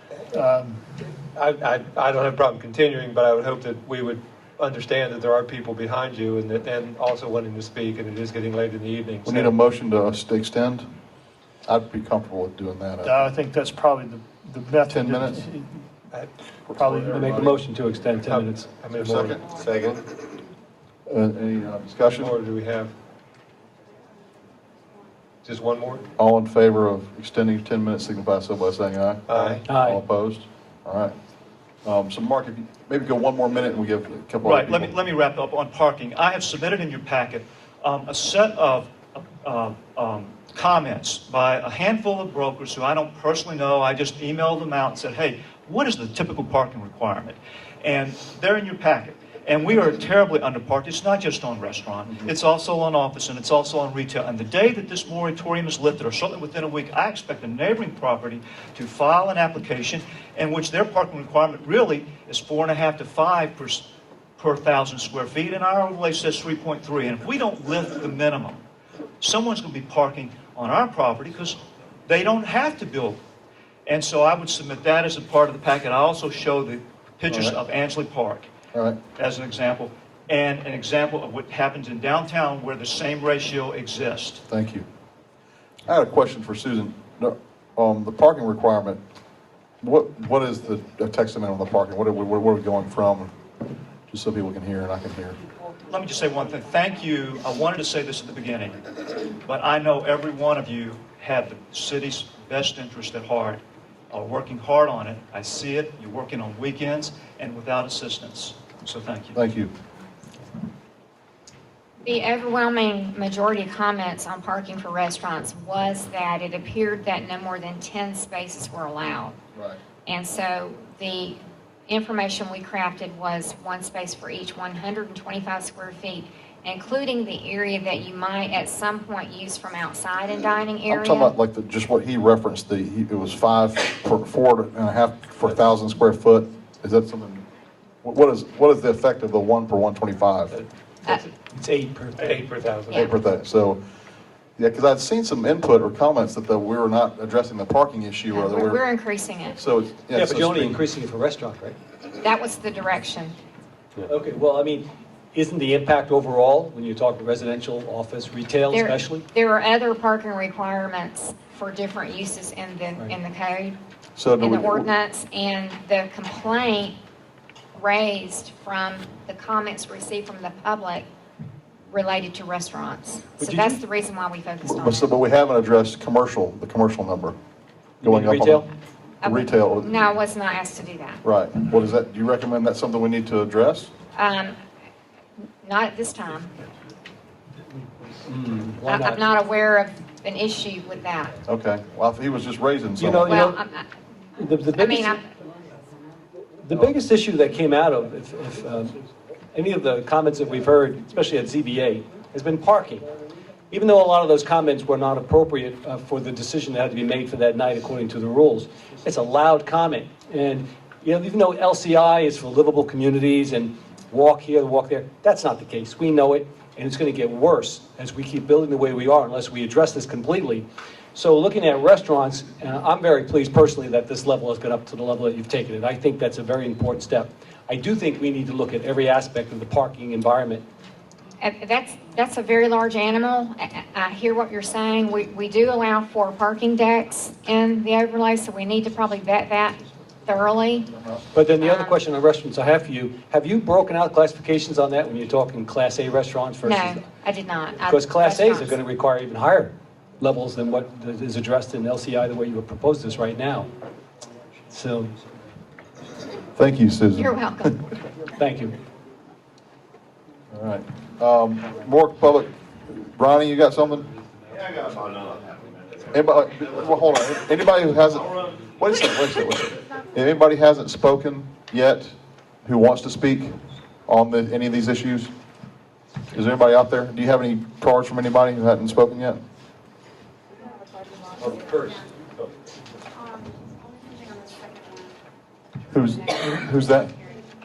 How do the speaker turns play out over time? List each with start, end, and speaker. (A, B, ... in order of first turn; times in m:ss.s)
0:00.4-0:00.7 A
0:01.2-0:09.5 B
0:09.2-0:10.9 C
0:11.6-0:13.3 C
0:13.0-0:15.8 A
0:14.9-0:15.4 C
0:16.7-0:17.5 C
0:16.8-0:17.1 A
0:17.1-0:18.7 D
0:18.2-0:20.0 B
0:18.9-0:19.7 C
0:21.0-0:22.3 C
0:22.0-0:22.9 B
0:25.4-0:26.1 B
0:26.2-0:31.1 C
0:29.3-0:29.6 B
0:29.7-0:30.0 D
0:31.8-0:34.9 C
0:34.4-1:08.6 E
1:09.2-1:13.2 E
1:13.8-1:18.5 E
1:17.3-1:17.6 C
1:18.7-1:19.0 C
1:19.1-1:24.4 E
1:24.5-1:24.8 C
1:25.9-1:29.0 C
1:29.8-1:33.3 C
1:34.1-1:35.4 C
1:35.9-1:38.8 E
1:39.4-1:49.4 E
1:49.3-1:49.7 C
1:52.0-1:59.3 F
2:00.0-2:01.4 F
2:01.9-2:11.3 F
2:10.9-2:17.4 C
2:18.0-2:20.6 C
2:20.5-2:21.3 B
2:21.5-2:22.4 D
2:22.2-2:23.1 B
2:22.9-2:23.8 C
2:24.6-2:28.8 C
2:28.3-2:29.6 F
2:29.6-2:30.8 C
2:30.1-2:31.8 D
2:32.2-2:33.3 F
2:34.0-2:39.2 D
2:38.7-2:43.8 F
2:44.2-2:44.9 C
2:44.4-2:46.9 F
2:47.7-2:51.0 F
2:51.9-2:55.1 F
2:53.4-2:53.8 D
2:54.6-2:57.4 C
2:58.0-2:58.7 D
2:58.0-2:58.7 C
2:59.2-3:01.2 F
2:59.2-3:00.0 C
3:01.2-3:03.9 C
3:04.1-3:04.6 F
3:05.6-3:06.5 F
3:08.2-3:09.2 D
3:08.9-3:11.4 F
3:11.4-3:13.4 C
3:13.0-3:13.6 D
3:13.3-3:13.8 F
3:14.4-3:15.2 D
3:14.8-3:15.2 F
3:16.6-3:19.0 D
3:19.5-3:23.1 D
3:23.7-3:50.6 D
3:51.4-4:00.9 F
4:01.3-4:07.0 D
4:01.6-4:02.0 F
4:06.6-4:08.8 F
4:07.9-4:13.7 D
4:14.8-4:15.1 B
4:16.5-4:17.4 C
4:17.2-4:17.8 F
4:18.4-4:18.8 D
4:20.5-4:24.1 C
4:26.1-4:32.1 C
4:32.6-4:35.3 C
4:36.3-4:39.4 C
4:45.9-4:47.1 C